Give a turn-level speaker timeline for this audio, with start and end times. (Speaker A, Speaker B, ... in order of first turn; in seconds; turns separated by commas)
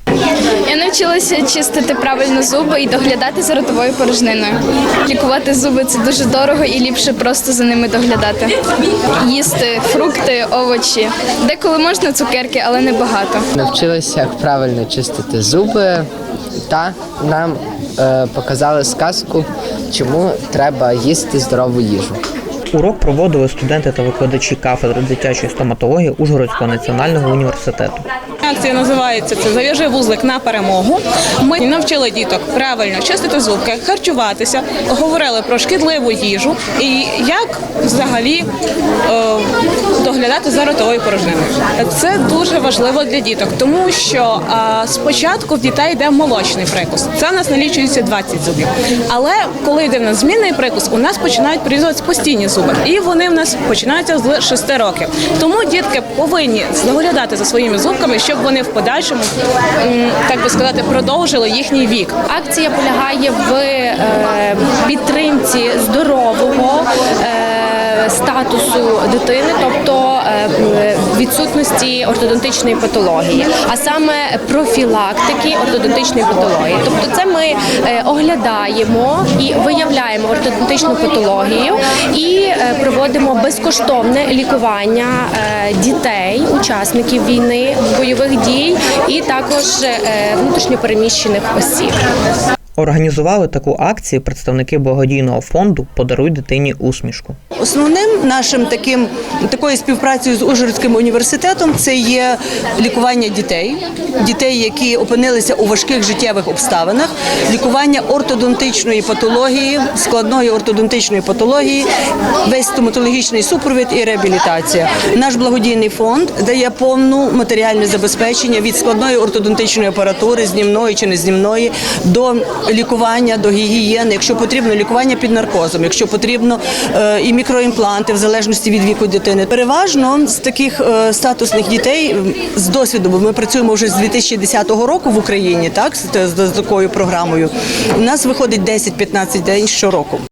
Speaker A: 0.7-8.5, Speaker A: 9.2-13.4, Speaker B: 13.6-16.1, Speaker B: 16.7-22.2, Speaker C: 22.7-28.1, Speaker D: 28.4-38.5, Speaker D: 39.1-62.2, Speaker E: 62.3-92.0, Speaker C: 92.8-97.4, Speaker F: 97.6-111.9, Speaker F: 112.4-140.2